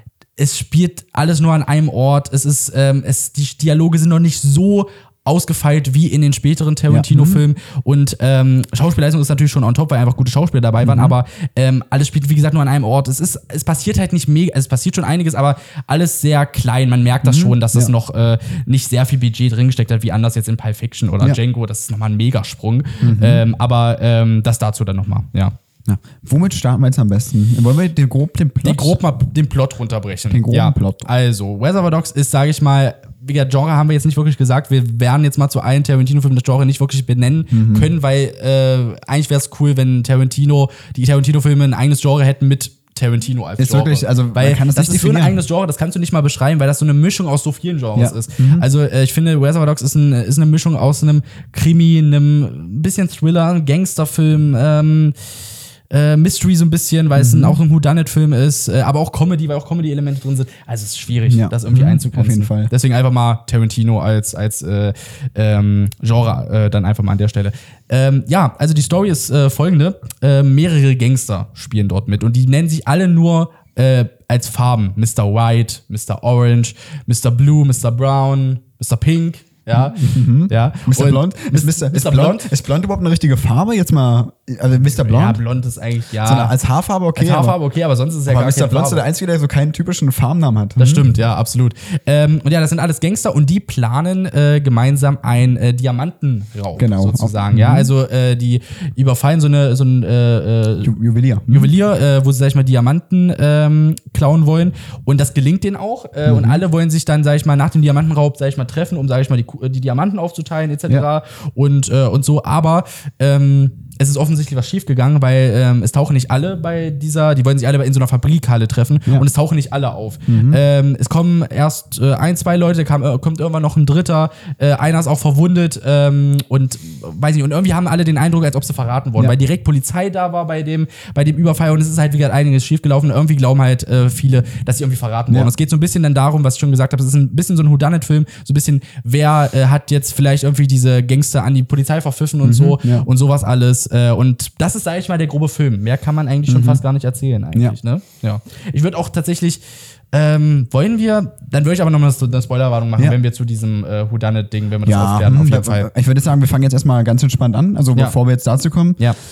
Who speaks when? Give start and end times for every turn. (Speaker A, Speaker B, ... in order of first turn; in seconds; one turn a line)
Speaker A: 0.4-25.6
Speaker B: 6.9-7.4
Speaker B: 10.8-11.2
Speaker B: 17.2-17.9
Speaker B: 23.0-23.4
Speaker B: 25.9-29.0
Speaker A: 28.6-55.1
Speaker B: 30.3-31.1
Speaker B: 37.5-37.9
Speaker B: 43.6-45.4
Speaker B: 48.0-48.7
Speaker A: 55.9-82.5
Speaker B: 57.2-57.6
Speaker B: 61.3-62.7
Speaker B: 79.7-85.4
Speaker A: 84.8-86.5
Speaker B: 86.2-87.6
Speaker A: 87.2-89.0
Speaker B: 88.3-91.1
Speaker A: 90.8-100.9
Speaker B: 96.8-97.9
Speaker B: 100.8-101.7
Speaker A: 101.5-149.6
Speaker B: 106.3-106.6
Speaker B: 120.3-120.6
Speaker B: 142.4-143.1
Speaker B: 146.5-146.8
Speaker A: 150.1-155.9
Speaker B: 154.8-159.0